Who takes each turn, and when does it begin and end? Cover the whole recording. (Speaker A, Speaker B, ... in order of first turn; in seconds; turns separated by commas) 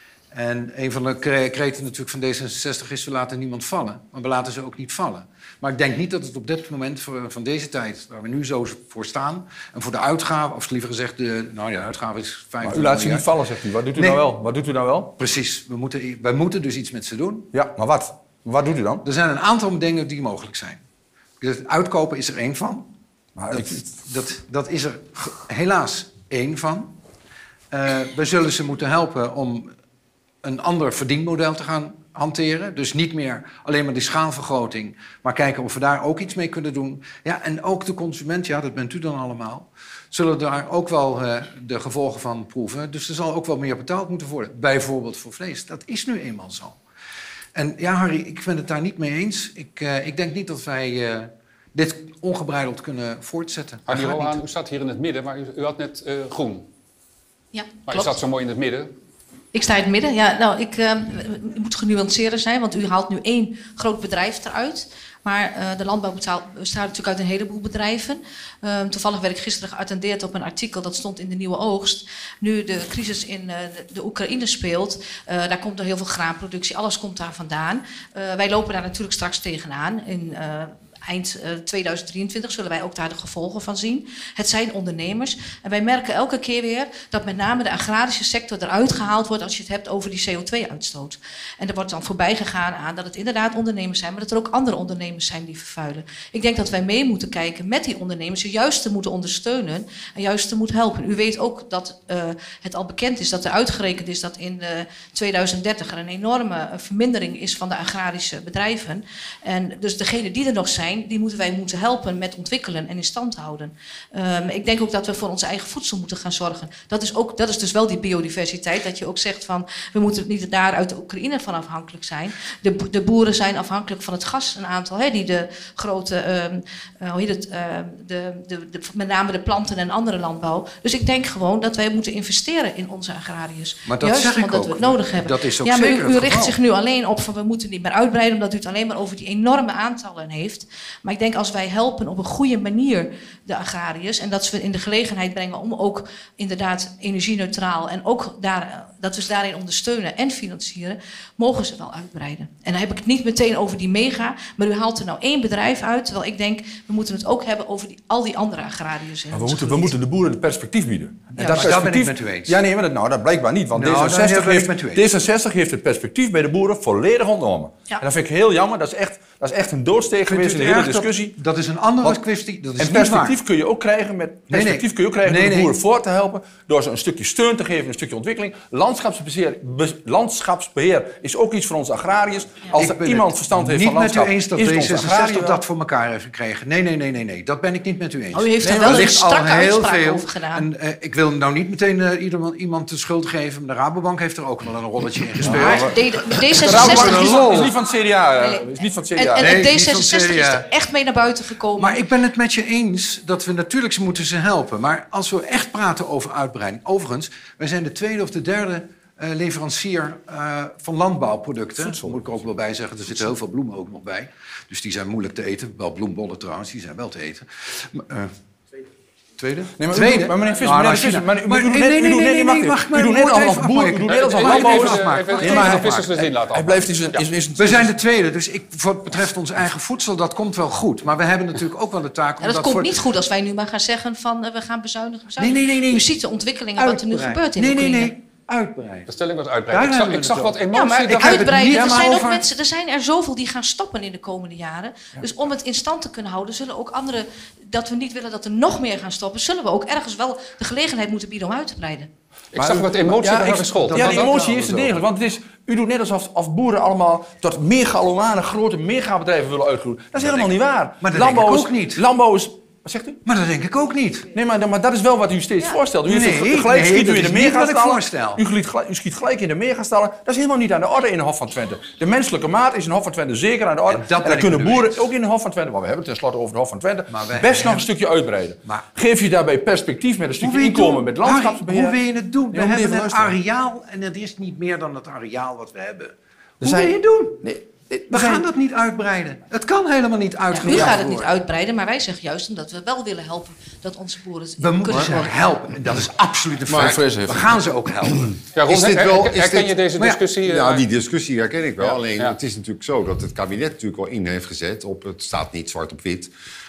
Speaker A: 0.3-13.3, Speaker B: 12.6-15.1, Speaker A: 13.9-14.2, Speaker A: 15.2-17.5, Speaker B: 17.5-19.0, Speaker A: 19.0-20.8, Speaker A: 21.4-22.9, Speaker B: 23.4-23.8, Speaker A: 23.5-26.9, Speaker A: 27.7-29.7, Speaker A: 30.4-46.8, Speaker A: 47.5-54.4, Speaker C: 53.9-56.7, Speaker D: 57.5-58.1, Speaker C: 57.9-58.9, Speaker D: 59.5-159.9, Speaker A: 133.8-136.6, Speaker B: 159.3-171.4, Speaker A: 161.3-162.6, Speaker A: 163.7-165.0, Speaker A: 170.2-173.4, Speaker B: 172.8-185.6, Speaker A: 174.5-175.7, Speaker A: 182.7-197.7, Speaker D: 188.3-190.7, Speaker B: 195.5-195.8, Speaker D: 195.5-202.0, Speaker B: 196.5-199.7, Speaker A: 199.3-200.7, Speaker A: 201.8-218.3, Speaker B: 211.8-212.2, Speaker A: 219.4-226.3, Speaker B: 219.7-228.0, Speaker C: 224.1-227.2, Speaker A: 227.6-233.1, Speaker D: 232.4-238.2, Speaker A: 235.4-236.1, Speaker A: 236.8-239.1, Speaker C: 239.1-241.5, Speaker A: 239.7-242.4, Speaker D: 240.7-252.1, Speaker B: 241.2-242.4, Speaker C: 252.5-254.4, Speaker B: 252.6-263.2, Speaker A: 253.6-255.0, Speaker A: 261.0-262.0, Speaker A: 263.2-264.3, Speaker B: 264.3-283.4, Speaker A: 266.0-268.4, Speaker A: 273.9-275.0, Speaker A: 277.1-277.9, Speaker A: 280.4-291.4, Speaker B: 286.6-288.4, Speaker D: 290.6-295.3, Speaker A: 294.6-298.4, Speaker E: 296.7-297.0, Speaker B: 296.7-297.7, Speaker C: 298.5-300.8, Speaker E: 298.6-299.8, Speaker A: 300.0-300.2, Speaker E: 300.3-306.3, Speaker C: 301.8-302.4